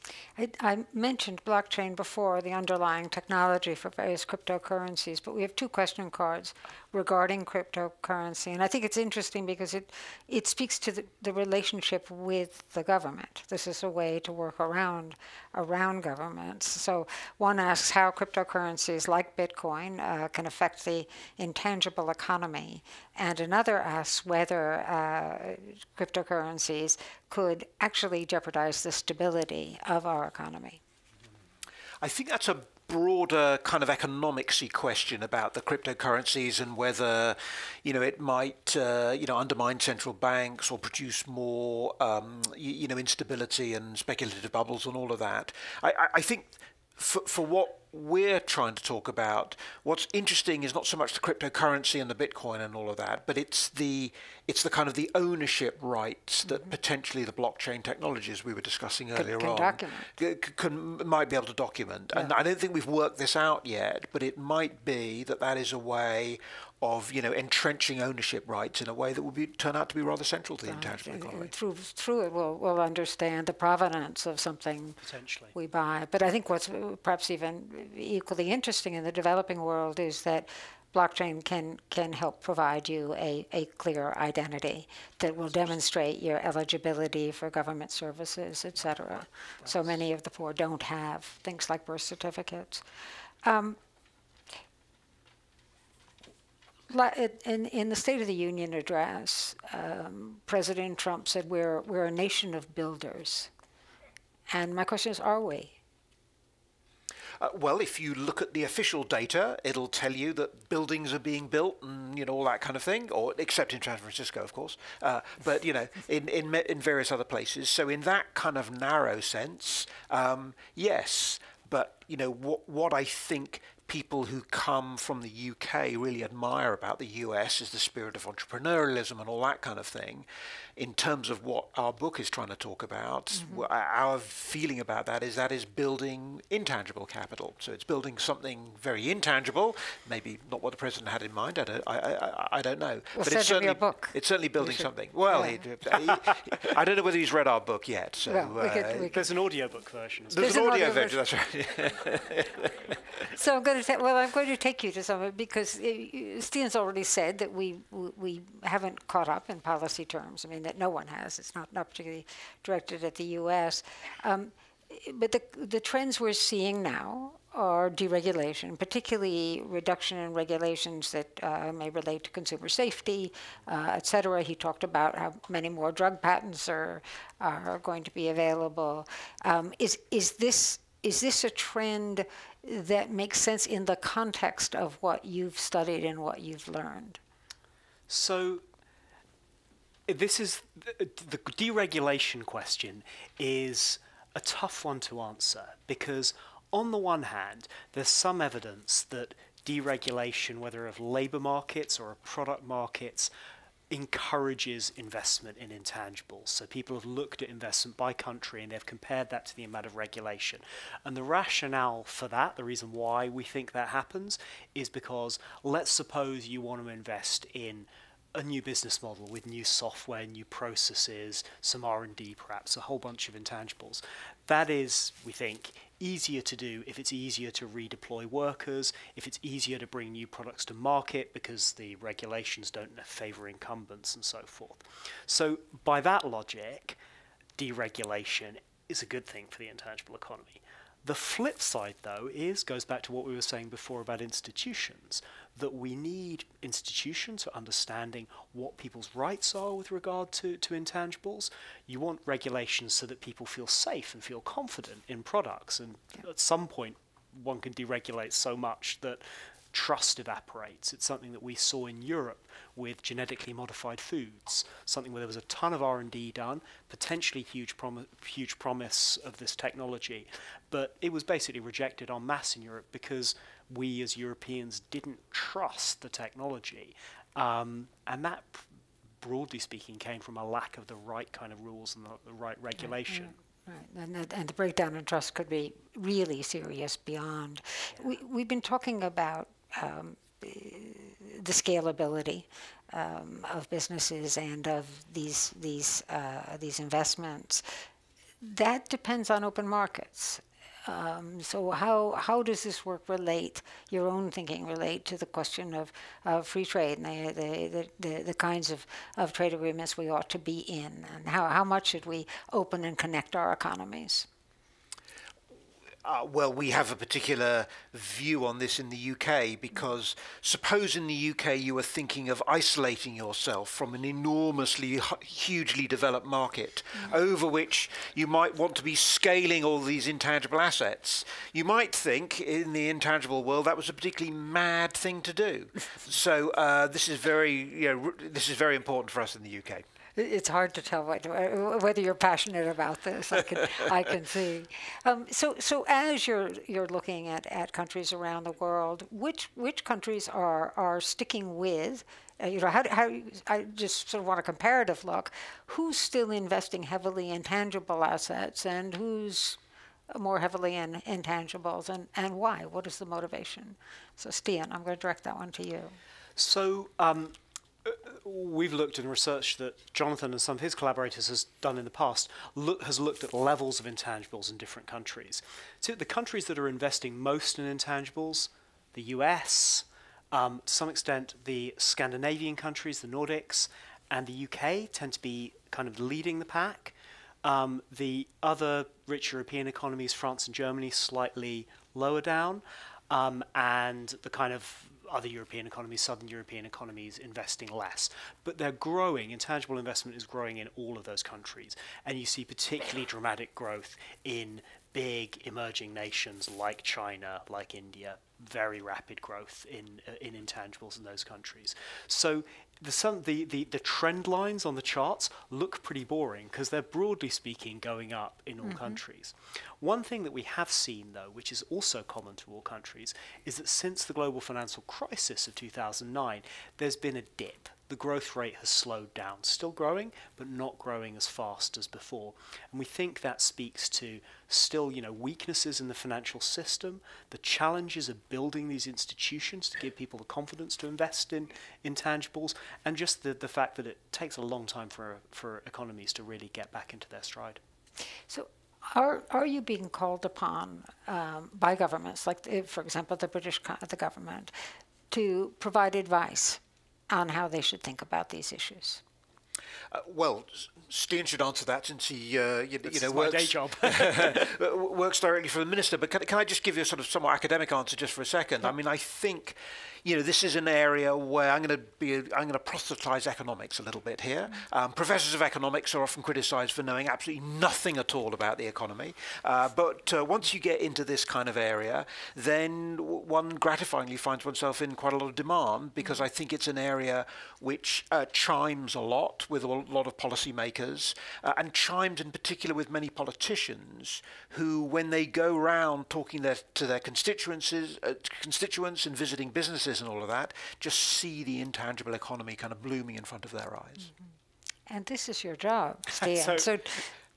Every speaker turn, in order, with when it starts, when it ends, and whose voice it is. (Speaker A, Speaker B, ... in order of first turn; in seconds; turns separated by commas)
Speaker A: 0.4-30.8, Speaker B: 32.0-71.5, Speaker A: 59.1-60.1, Speaker A: 70.6-75.0, Speaker C: 75.0-75.5, Speaker A: 75.5-92.8, Speaker A: 93.4-93.8, Speaker A: 96.9-103.5, Speaker A: 104.5-105.8, Speaker B: 107.4-130.2, Speaker B: 130.8-149.1, Speaker A: 143.2-145.6, Speaker A: 148.3-149.3, Speaker C: 149.1-150.6, Speaker B: 150.3-153.1, Speaker A: 150.3-151.2, Speaker A: 153.3-187.2, Speaker C: 188.1-188.6, Speaker C: 190.1-203.3, Speaker C: 203.9-237.0, Speaker C: 237.6-278.6, Speaker C: 279.2-283.3, Speaker A: 283.1-297.6, Speaker A: 298.4-314.3, Speaker B: 316.0-339.8, Speaker A: 340.1-359.6, Speaker A: 360.1-365.9, Speaker C: 366.4-447.6, Speaker A: 418.6-419.0, Speaker A: 448.3-454.5, Speaker A: 455.1-459.0, Speaker B: 459.9-504.1, Speaker C: 462.9-464.5, Speaker A: 504.9-507.1, Speaker C: 506.2-506.7